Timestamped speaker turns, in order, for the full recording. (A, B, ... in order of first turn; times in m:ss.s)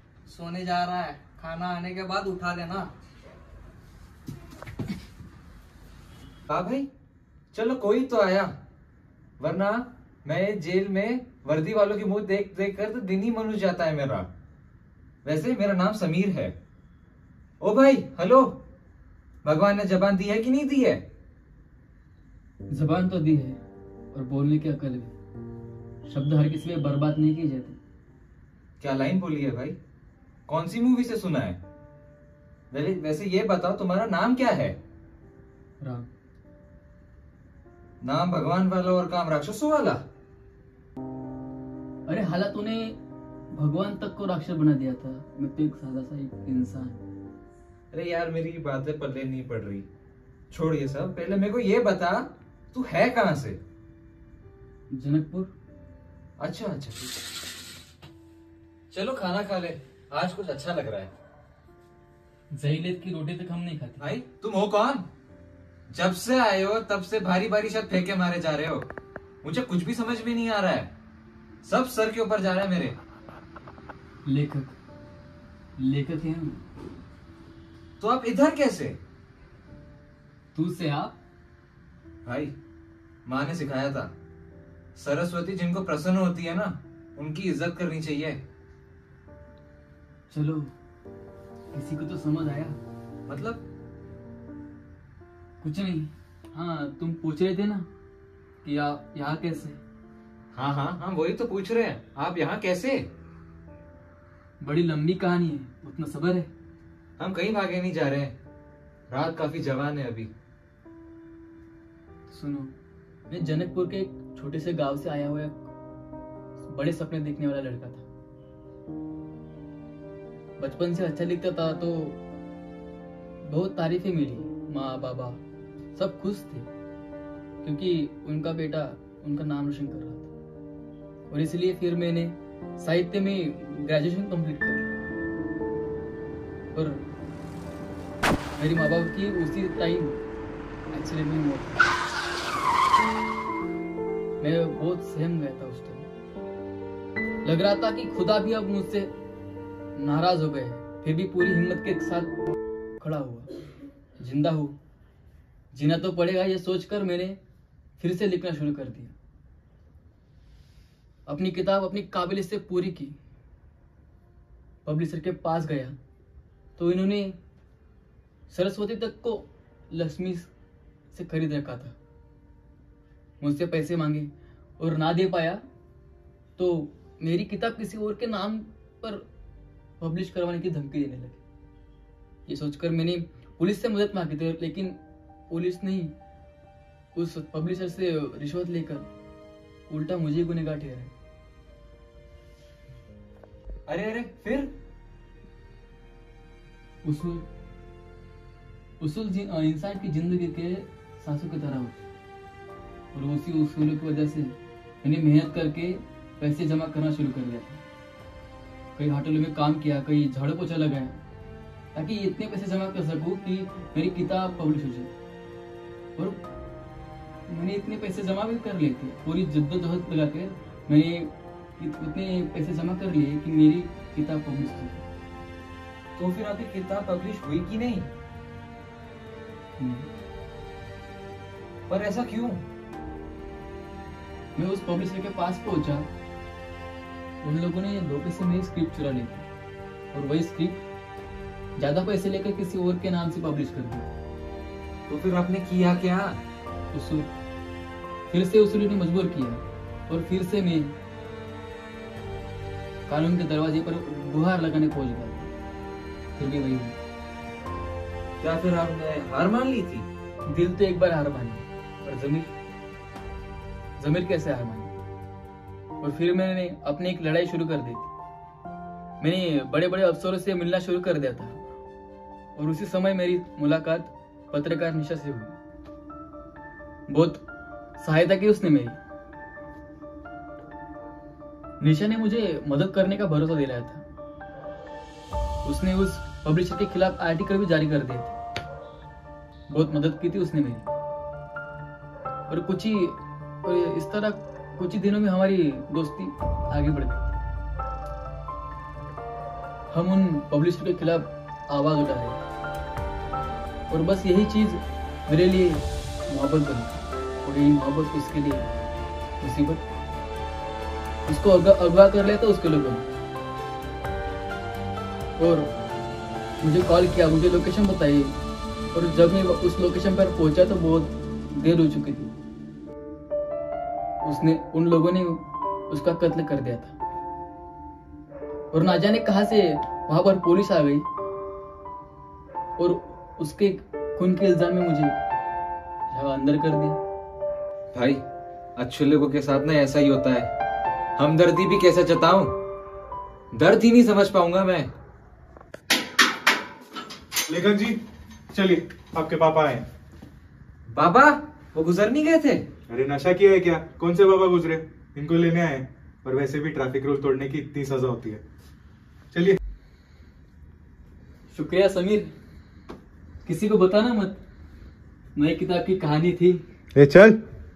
0:00.2-0:02.9 A
0:06.5-0:06.9 B
0:07.5-0:08.5 B
0:09.4-0:14.3 B
0:15.2-0:16.5 B
0:17.6-0:18.6 B
0:19.4-0:21.0 B
0:22.7-0:23.6 C
0:24.1-0:25.1 C
0:26.0-0:27.8 C
0:28.8-0:29.8 B
0:30.5-0:31.6 B
0:32.7-0:34.8 B
0:35.8-0:36.1 C
0:38.0-0:40.0 B
0:42.1-0:43.0 C
0:43.5-0:47.0 C
0:47.9-0:49.8 B
0:50.5-0:53.6 B
0:54.9-0:55.5 C
0:56.4-0:57.1 B
0:58.9-1:01.1 B
1:02.5-1:04.1 C
1:04.0-1:05.0 B
1:05.9-1:08.9 B
1:09.4-1:10.9 B
1:11.6-1:13.0 B
1:14.2-1:14.8 C
1:15.8-1:16.6 C
1:18.0-1:19.0 B
1:20.5-1:21.2 C
1:22.2-1:22.5 B
1:23.2-1:24.1 B
1:25.0-1:28.4 B
1:30.3-1:30.7 C
1:31.7-1:32.8 C
1:33.3-1:33.6 B
1:35.6-1:37.9 C
1:38.6-1:39.8 C
1:40.5-1:43.0 B
1:44.6-1:46.5 C
1:47.2-1:48.3 B
1:49.1-1:50.3 B
1:52.3-1:52.7 C
1:53.3-1:55.6 C
1:56.6-1:58.0 C
2:00.6-2:02.2 C
2:03.4-2:05.4 C
2:05.9-2:06.7 C
2:07.6-2:10.3 C
2:11.3-2:14.9 C
2:16.7-2:17.0 C
2:18.6-2:20.2 C
2:20.9-2:21.8 C
2:24.4-2:26.1 C
2:27.4-2:29.1 C
2:30.0-2:32.3 C
2:33.0-2:33.5 C
2:34.2-2:34.7 C
2:35.7-2:37.4 C
2:38.0-2:39.1 C
2:41.3-2:43.1 C
2:44.8-2:45.9 C
2:46.8-2:47.4 C
2:48.5-2:50.5 C
2:51.1-2:51.9 C
2:53.4-2:55.6 C
2:56.6-2:59.2 C
3:00.0-3:01.4 C
3:02.5-3:05.0 C
3:05.5-3:06.1 C
3:07.1-3:09.0 C
3:09.9-3:11.1 C
3:13.9-3:14.7 B
3:17.0-3:17.4 C
3:19.0-3:22.0 C
3:23.1-3:27.8 C
3:29.0-3:31.2 C
3:31.9-3:35.1 C
3:36.2-3:36.4 C
3:37.5-3:45.0 C
3:46.2-3:48.1 B
3:49.8-3:50.1 C
3:51.9-3:52.6 B
3:54.6-3:56.1 C
3:57.4-3:59.4 C
4:00.1-4:00.8 C
4:01.8-4:04.1 C
4:05.1-4:06.4 B
4:06.9-4:07.3 C
4:08.3-4:10.9 C
4:13.1-4:15.5 C
4:16.3-4:17.0 C
4:18.4-4:20.0 B
4:20.5-4:22.5 C
4:24.0-4:24.9 C
4:26.0-4:28.1 C
4:29.2-4:31.6 C
4:32.6-4:35.6 C
4:37.1-4:37.4 C
4:38.0-4:39.0 C
4:41.8-4:44.0 C
4:45.6-4:48.4 C
4:49.7-4:50.9 C
4:52.5-4:57.4 C
4:59.9-5:02.4 C
5:03.9-5:08.7 C
5:09.4-5:09.8 C
5:11.2-5:13.0 C
5:15.4-5:15.7 C
5:16.6-5:18.4 C
5:18.9-5:22.3 C
5:24.2-5:26.9 C
5:28.7-5:31.0 C
5:32.8-5:35.1 C
5:36.1-5:37.0 C
5:37.9-5:38.2 B
5:38.8-5:40.5 B
5:41.2-5:42.5 B
5:43.5-5:44.9 B
5:47.5-5:48.0 D
5:48.5-5:49.8 D
5:50.9-5:52.6 B
5:52.9-5:58.4 D
5:59.3-5:59.6 D
6:01.5-6:02.3 C
6:03.4-6:04.4 C
6:05.4-6:06.6 C
6:06.9-6:07.4 D